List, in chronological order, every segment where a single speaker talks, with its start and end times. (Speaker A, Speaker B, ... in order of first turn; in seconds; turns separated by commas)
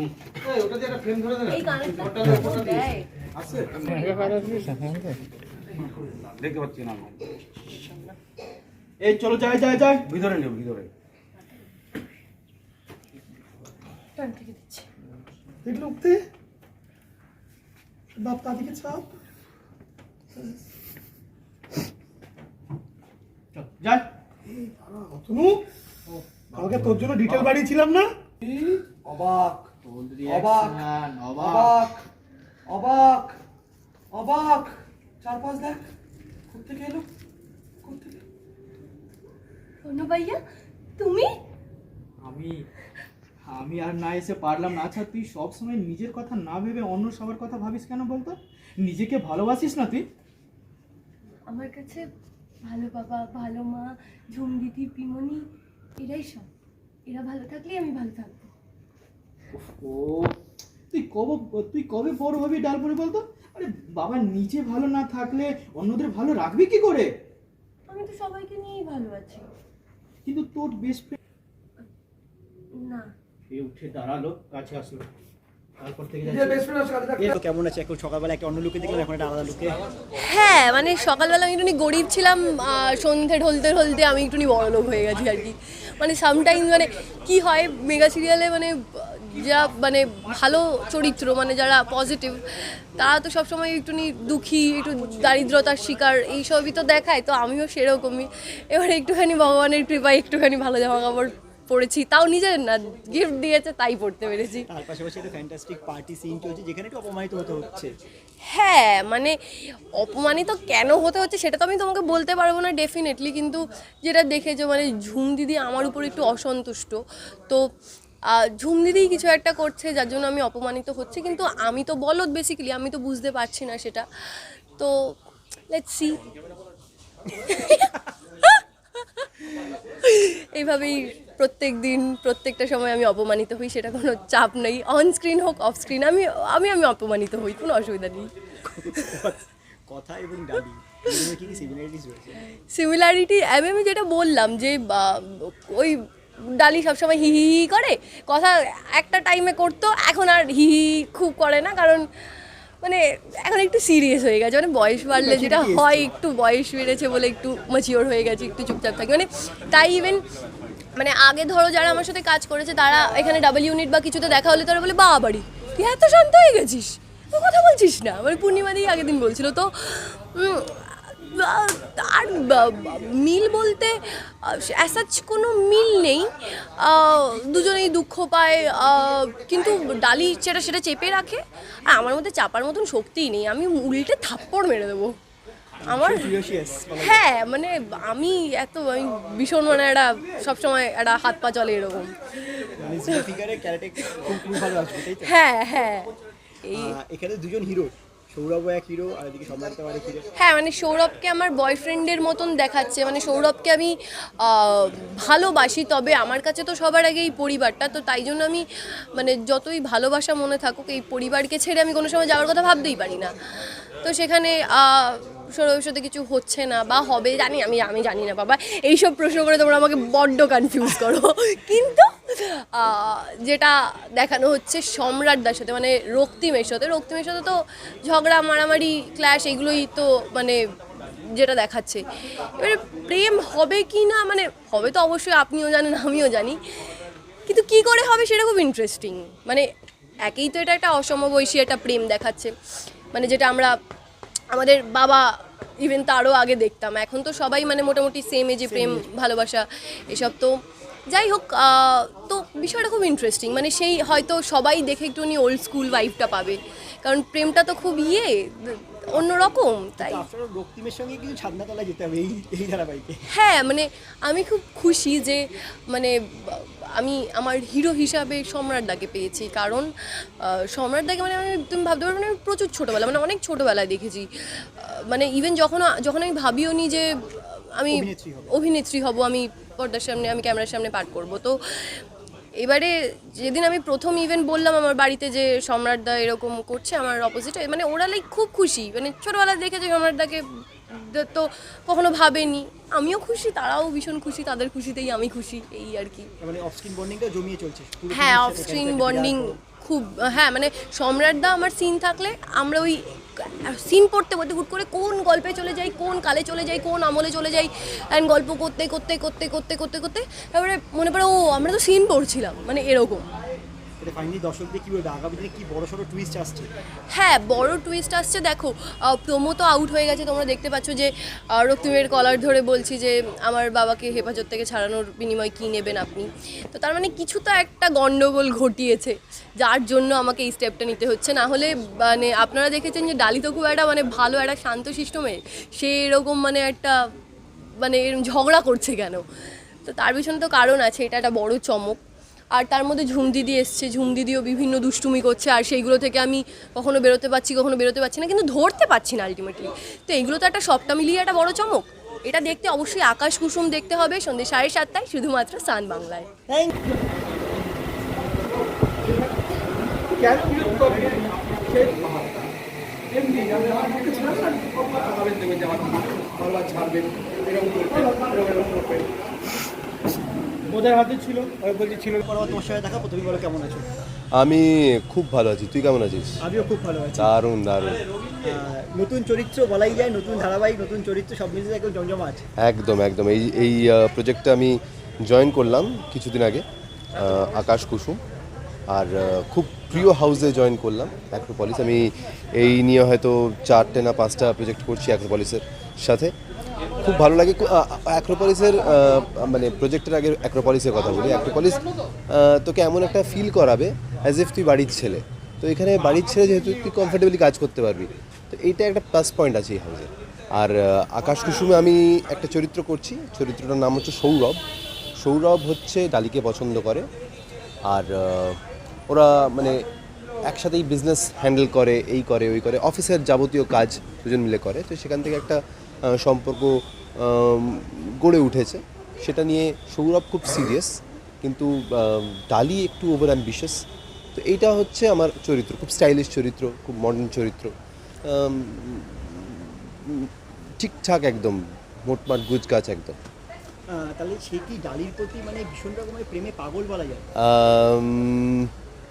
Speaker A: 0.5-2.9, Speaker B: 1.4-3.1, Speaker C: 3.3-3.9, Speaker B: 3.9-4.5, Speaker A: 6.1-7.2, Speaker B: 7.7-8.2, Speaker C: 9.0-10.1, Speaker A: 10.2-10.9, Speaker B: 14.2-14.9, Speaker C: 15.7-16.2, Speaker A: 18.2-19.0, Speaker C: 18.2-18.9, Speaker C: 23.5-24.1, Speaker A: 24.9-25.6, Speaker C: 26.1-27.7, Speaker A: 26.6-28.1, Speaker C: 28.4-28.7, Speaker A: 29.0-29.6, Speaker C: 29.8-32.0, Speaker A: 30.3-30.8, Speaker A: 31.4-31.9, Speaker A: 32.7-33.3, Speaker A: 34.1-35.8, Speaker C: 36.5-37.0, Speaker C: 37.9-38.2, Speaker B: 39.8-40.4, Speaker B: 41.0-41.3, Speaker C: 42.2-42.6, Speaker C: 43.5-50.1, Speaker B: 51.5-52.1, Speaker B: 52.6-55.4, Speaker B: 56.0-56.5, Speaker B: 57.1-58.5, Speaker C: 59.5-60.4, Speaker C: 60.9-67.1, Speaker B: 67.9-69.5, Speaker C: 70.2-71.2, Speaker B: 72.7-73.1, Speaker C: 73.5-75.1, Speaker C: 75.8-77.3, Speaker D: 77.2-79.8, Speaker B: 80.2-104.7, Speaker D: 104.7-108.0, Speaker B: 108.5-117.7, Speaker B: 118.3-124.1, Speaker B: 124.8-125.1, Speaker B: 125.7-126.2, Speaker B: 127.3-138.3, Speaker D: 138.7-142.4, Speaker B: 142.5-146.0, Speaker B: 146.5-152.1, Speaker B: 152.8-160.2, Speaker D: 155.2-156.1, Speaker B: 161.0-185.1, Speaker B: 185.9-186.4, Speaker D: 185.9-187.2, Speaker B: 187.0-192.2, Speaker D: 192.8-195.3, Speaker B: 195.2-196.1, Speaker B: 196.6-197.0, Speaker D: 196.7-200.3, Speaker B: 200.4-208.6, Speaker B: 209.2-213.3, Speaker B: 214.0-230.6, Speaker B: 231.3-232.0, Speaker B: 232.6-236.6, Speaker B: 237.5-239.6, Speaker B: 240.2-242.5, Speaker B: 243.1-243.8, Speaker B: 244.5-245.2, Speaker B: 245.8-250.6, Speaker D: 248.7-249.1, Speaker B: 251.1-260.2, Speaker D: 260.0-263.2, Speaker B: 263.3-269.9, Speaker B: 270.4-282.0, Speaker D: 277.9-278.5, Speaker B: 282.6-296.3, Speaker D: 296.4-299.6, Speaker B: 298.1-313.3, Speaker D: 314.0-316.7, Speaker B: 317.1-337.0, Speaker B: 337.8-339.2, Speaker B: 339.9-342.0, Speaker B: 342.5-356.3, Speaker C: 360.1-362.5, Speaker C: 363.1-366.5, Speaker A: 365.3-369.1, Speaker C: 367.8-368.7, Speaker C: 370.7-371.6, Speaker D: 371.6-373.9, Speaker E: 374.3-376.4, Speaker D: 376.4-377.3, Speaker E: 377.2-378.0, Speaker D: 378.4-382.4, Speaker E: 382.6-388.2, Speaker E: 388.9-396.3, Speaker E: 397.0-414.6, Speaker E: 415.2-417.1, Speaker E: 417.9-419.8, Speaker E: 420.4-425.6, Speaker E: 426.1-430.9, Speaker E: 431.4-433.8, Speaker E: 434.4-437.7, Speaker E: 438.3-443.2, Speaker D: 443.9-447.3, Speaker E: 447.4-448.7